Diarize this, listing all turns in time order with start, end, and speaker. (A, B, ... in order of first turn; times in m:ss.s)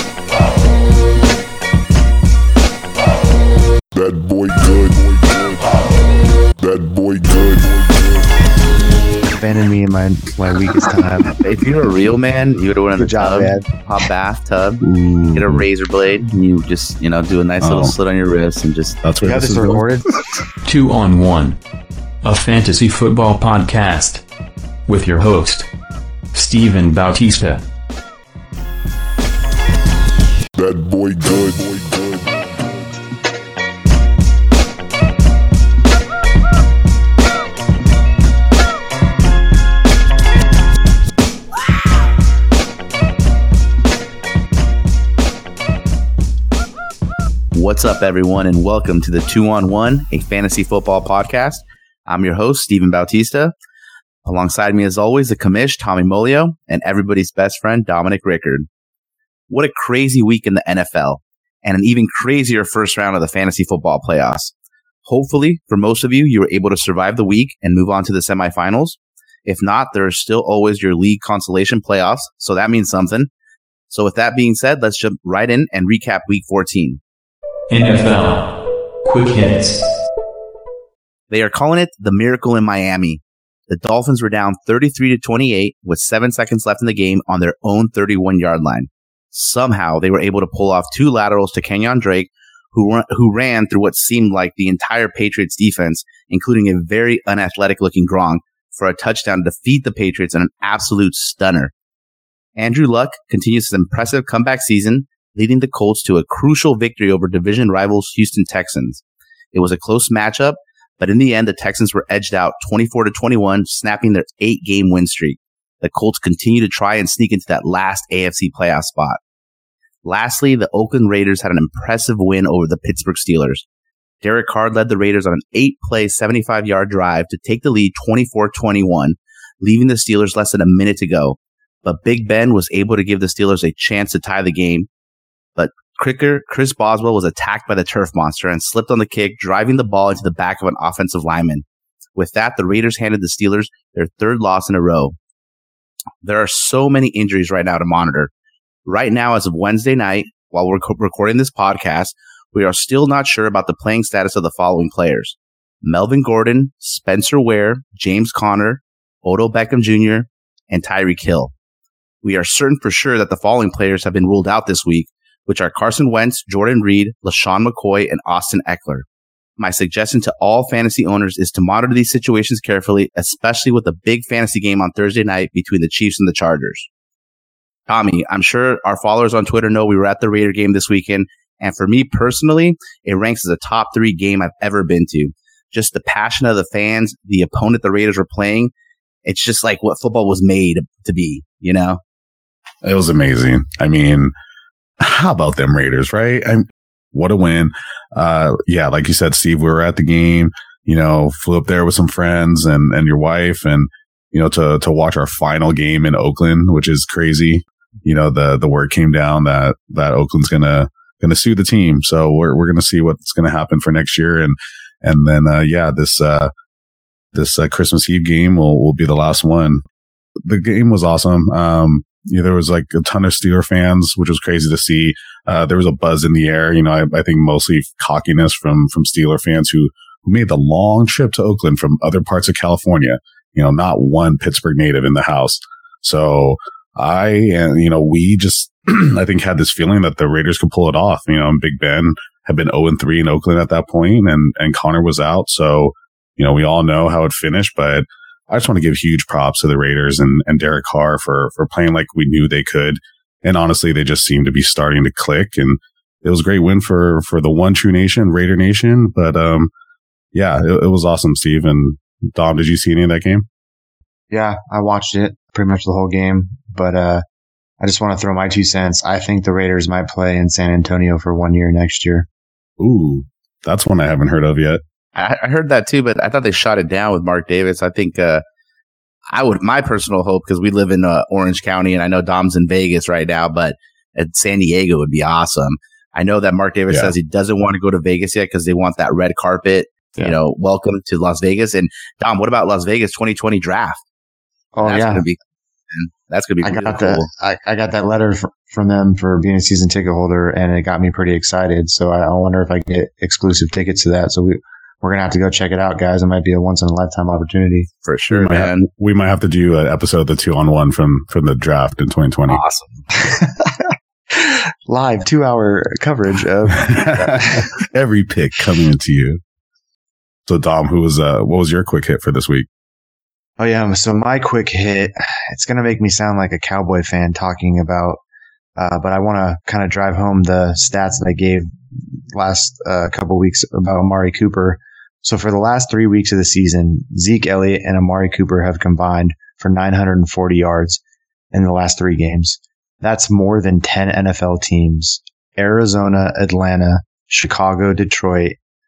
0:04.0-0:05.8 A
0:06.6-0:08.3 A
0:09.3-0:11.3 B
0:11.4-0:14.8 C
0:13.0-0:13.7 B
0:14.8-0:15.7 D
0:15.3-0:19.0 C
0:17.6-0:17.9 D
0:19.0-0:19.8 D
0:19.2-0:20.1 B
0:20.7-0:21.6 E
0:22.2-0:24.2 E
0:24.9-0:25.7 E
0:26.3-0:27.7 E
0:30.6-0:32.5 A
0:47.5-0:53.5 C
0:54.2-0:58.7 C
0:59.5-1:04.5 C
1:05.0-1:13.3 C
1:13.9-1:17.0 C
1:17.7-1:19.8 E
1:21.3-1:41.7 C
1:42.6-1:49.0 C
1:49.5-1:59.2 C
2:00.0-2:03.6 C
2:04.2-2:14.9 C
2:15.6-2:21.6 C
2:22.2-2:25.2 C
2:26.2-2:28.3 C
2:28.9-2:41.5 C
2:42.2-2:49.1 C
2:49.6-2:56.9 C
2:57.9-3:08.7 C
3:09.2-3:12.0 C
3:12.8-3:14.3 D
3:15.0-3:36.5 D
3:37.3-3:39.8 D
3:40.4-4:19.7 D
4:20.3-4:23.5 D
4:24.3-4:27.2 B
4:27.8-4:32.3 B
4:32.8-4:34.8 D
4:35.2-4:38.4 C
4:39.3-4:54.0 C
4:54.8-4:55.2 B
4:54.8-4:55.4 C
4:55.9-4:57.3 C
4:56.6-5:07.9 B
5:08.0-5:08.9 C
5:08.3-5:12.6 D
5:12.5-5:13.0 C
5:13.2-5:13.8 B
5:14.3-5:17.5 B
5:16.8-5:19.4 D
5:20.5-5:22.7 D
5:23.6-5:28.2 B
5:28.8-5:31.7 B
5:32.3-5:41.0 B
5:41.5-5:48.6 B